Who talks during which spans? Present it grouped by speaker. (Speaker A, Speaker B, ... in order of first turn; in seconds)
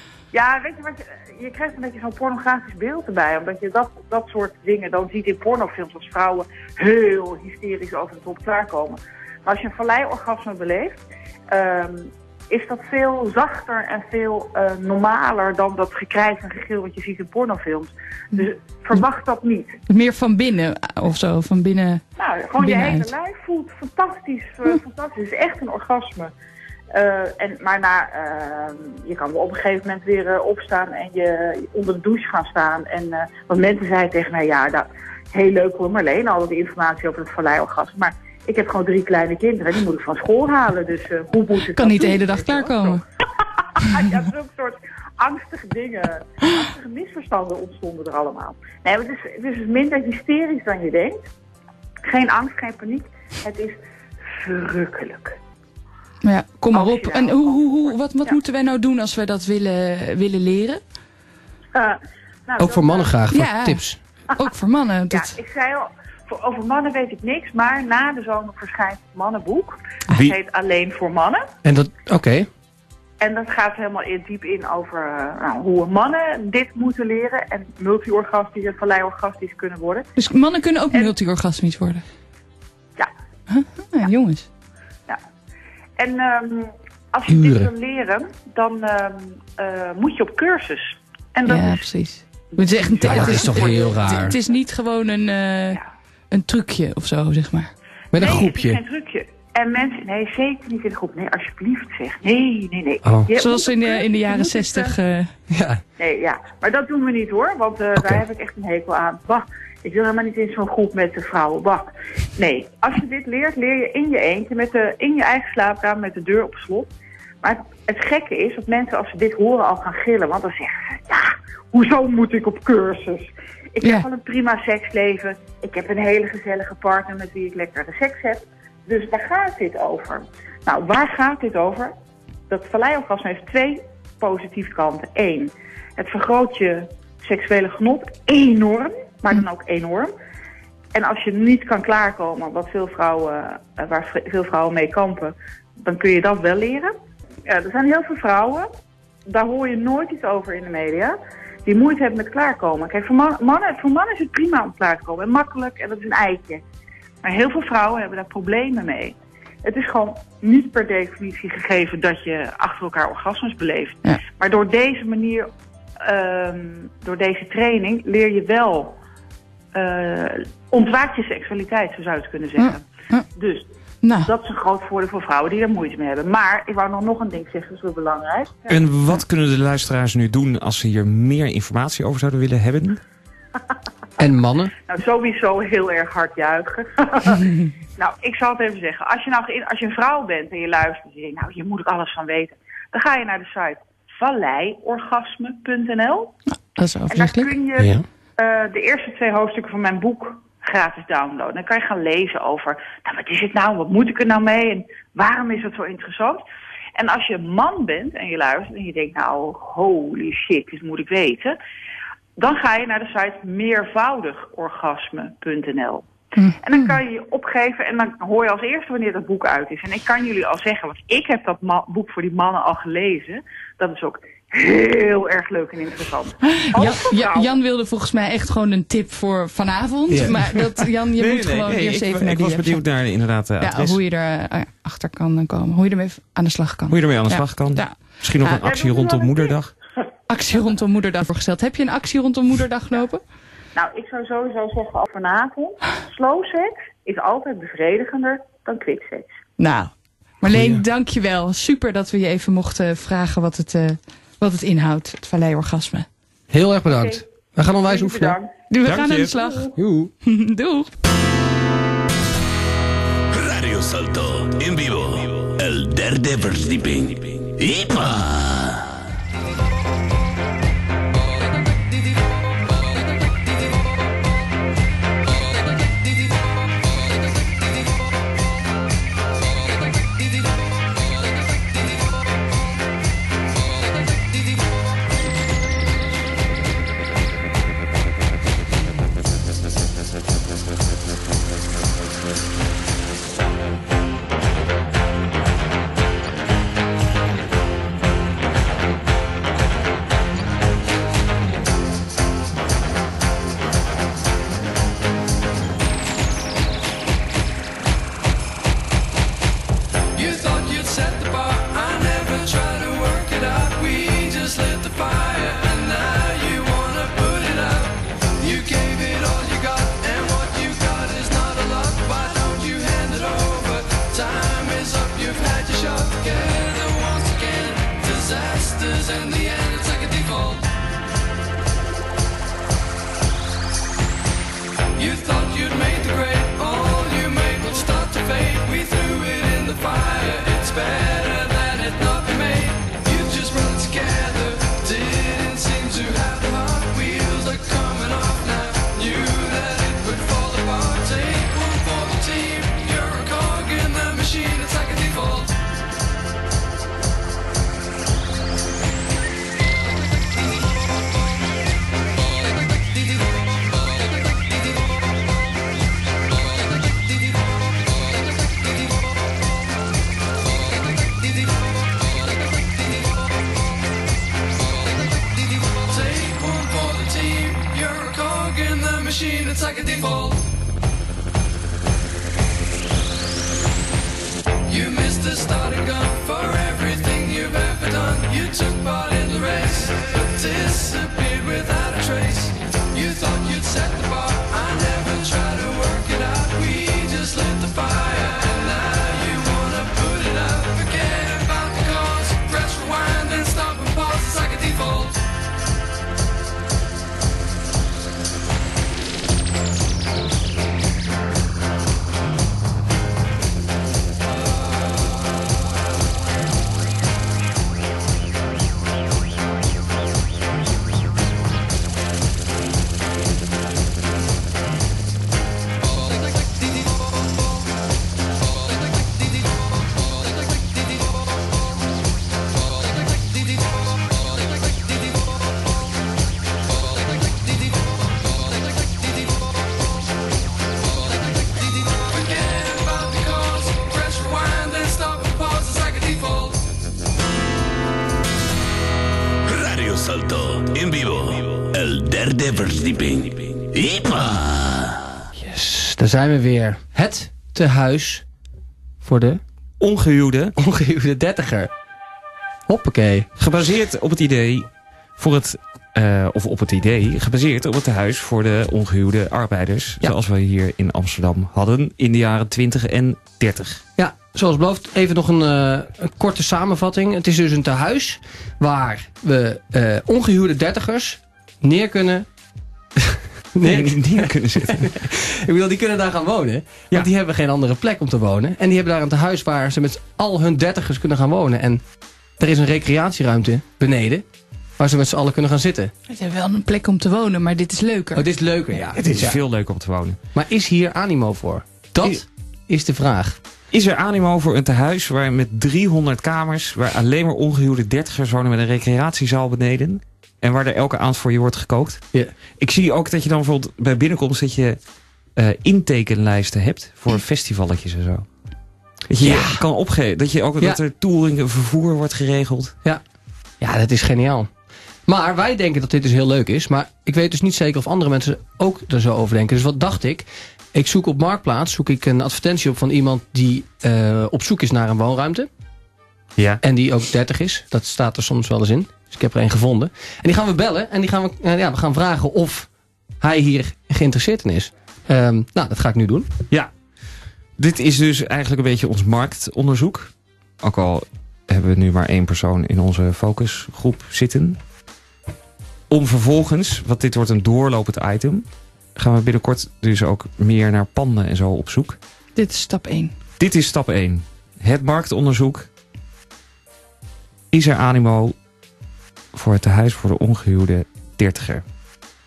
Speaker A: 0.3-19.8, 22.2-26.3, 26.9-43.0, 43.8-51.3, 52.1-53.8, 54.4-55.4, 56.7-58.4, 61.8-63.2, 65.1-71.5, 73.2-80.1, 86.0-91.8, 92.5-94.4, 98.2-105.0, 106.0-116.9, 117.4-131.9, 132.5-140.1, 140.9-146.9, 147.5-148.7, 149.3-156.6, 157.2-165.5, 166.0-169.0, 169.7-173.7, 174.2-178.8, 184.9-196.3, 197.1-206.4, 207.0-211.6, 212.4-216.1, 216.6-227.6, 238.5-239.6, 243.8-249.3, 256.9-257.2, 257.8-258.5
Speaker B: 19.9-22.0, 22.6-23.1, 41.7-43.0, 56.2-60.8, 63.3-63.8, 64.4-65.3, 80.2-82.0, 83.5-84.5, 91.5-97.7, 103.3-105.3, 172.6-173.3, 174.0-174.3, 196.5-197.5, 216.4-216.9, 226.5-232.8, 233.6-238.6, 240.3-243.2, 249.6-256.1, 258.7-259.7, 260.2-260.9, 496.1-498.2, 562.4-563.1
Speaker C: 62.6-64.0, 71.7-72.5, 87.3-87.7, 93.0-94.4, 98.1-98.8, 103.0-103.3, 105.5-105.8, 108.0-108.2, 184.2-184.7, 197.8-198.0, 230.1-230.4, 250.5-250.8, 256.5-258.4, 259.8-260.1, 455.4-458.2, 459.0-459.4, 460.6-461.7, 462.7-463.3, 474.0-482.3, 483.0-491.8, 492.4-494.2, 494.8-495.9, 498.1-499.4, 500.3-503.4, 519.2-519.6, 523.6-524.5, 525.1-535.5, 536.6-542.7, 543.2-546.3
Speaker D: 178.7-183.0, 231.2-234.0, 236.9-239.7, 258.8-259.4, 459.8-460.5, 463.4-473.8, 483.6-485.0, 498.9-500.2, 503.7-512.0, 512.6-514.8, 515.4-518.3, 519.1-522.8, 547.6-554.6, 555.9-562.0, 563.4-565.7, 567.5-568.4, 569.3-571.6
Speaker E: 263.3-268.9, 449.4-455.0
Speaker F: 310.1-330.7, 334.9-355.6, 375.6-380.5, 384.7-405.2, 441.8-446.6